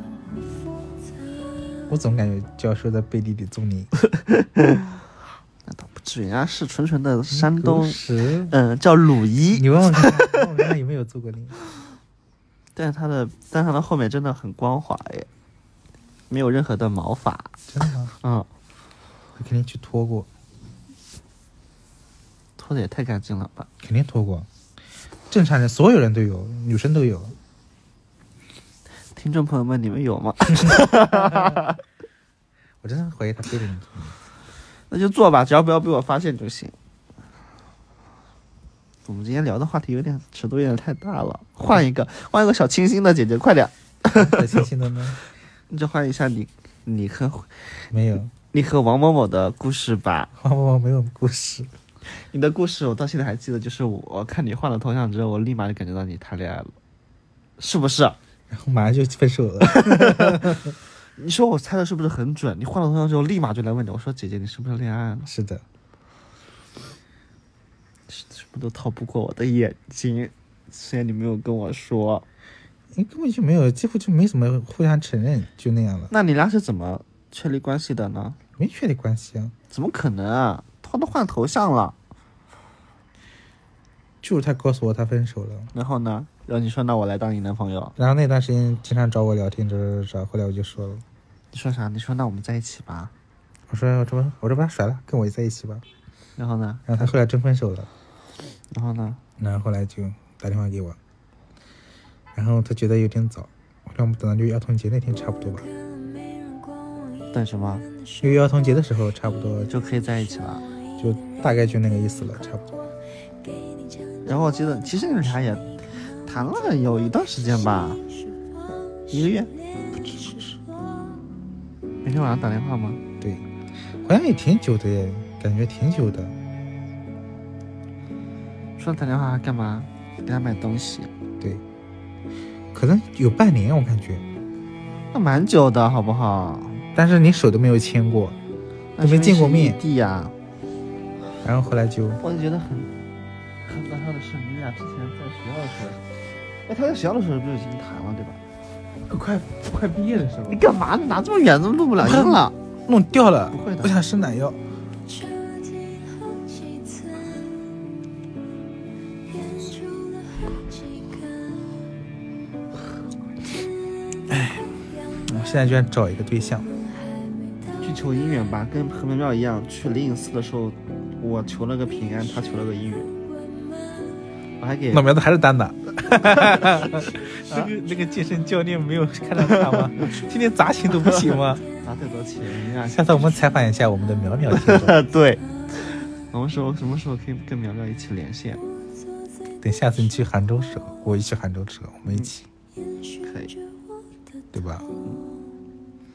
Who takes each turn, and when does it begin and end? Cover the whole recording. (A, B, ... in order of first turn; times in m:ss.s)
0:01.9-0:03.9 A
0:04.1-0:04.5 B
0:05.6-0:10.4 B
0:07.3-0:08.5 A
0:09.5-0:11.6 A
0:12.7-0:15.3 B
0:16.3-0:17.5 B
0:17.7-0:18.1 A
0:18.2-0:18.5 B
0:19.4-0:20.3 A
0:22.6-0:23.7 B
0:23.8-0:24.5 A
0:25.3-0:27.4 A
0:29.2-0:31.8 B
0:30.6-0:31.6 A
0:32.8-0:34.2 A
0:34.9-0:36.7 B
0:39.0-0:44.6 B
0:44.1-0:45.2 A
0:45.7-0:47.8 B
0:47.9-0:48.3 A
0:48.5-0:50.3 B
0:50.4-0:51.7 A
0:52.1-0:56.7 B
0:57.6-0:58.2 B
0:58.5-1:00.7 A
0:59.6-1:05.3 B
1:05.3-1:05.6 A
1:08.1-1:12.2 B
1:12.9-1:16.1 A
1:16.1-1:18.4 B
1:18.6-1:19.5 A
1:19.7-1:22.0 B
1:24.2-1:25.7 A
1:25.7-1:27.9 B
1:28.0-1:31.0 A
1:31.5-1:33.1 B
1:33.7-1:35.8 A
1:36.4-1:37.1 B
1:36.9-1:37.9 A
1:38.7-1:39.2 B
1:39.4-1:41.0 A
1:42.3-1:45.7 A
1:47.3-1:47.9 B
1:48.2-1:49.7 A
1:49.7-1:50.7 B
1:51.0-1:52.7 A
1:54.2-1:58.0 B
1:59.1-1:59.5 B
1:59.9-2:00.6 A
2:02.0-2:03.0 B
2:04.0-2:06.3 A
2:08.8-2:11.1 B
2:12.7-2:14.2 A
2:15.1-2:16.8 B
2:16.9-2:18.4 A
2:19.0-2:20.3 B
2:19.0-2:19.8 A
2:21.4-2:22.2 A
2:22.2-2:22.9 B
2:23.6-2:26.0 B
2:26.6-2:28.4 B
2:29.1-2:30.6 A
2:30.5-2:32.5 B
2:32.0-2:34.6 A
2:33.5-2:33.9 B
2:44.3-2:44.6 A
2:45.2-2:46.7 A
2:47.8-2:53.1 B
2:54.6-2:55.1 B
2:54.9-3:01.6 A
2:56.3-2:56.6 B
2:59.5-2:59.7 B
3:01.8-3:03.4 B
3:02.9-3:05.0 A
3:04.5-3:08.6 B
3:09.6-3:12.4 A
3:13.2-3:13.6 B
3:14.5-3:14.9 A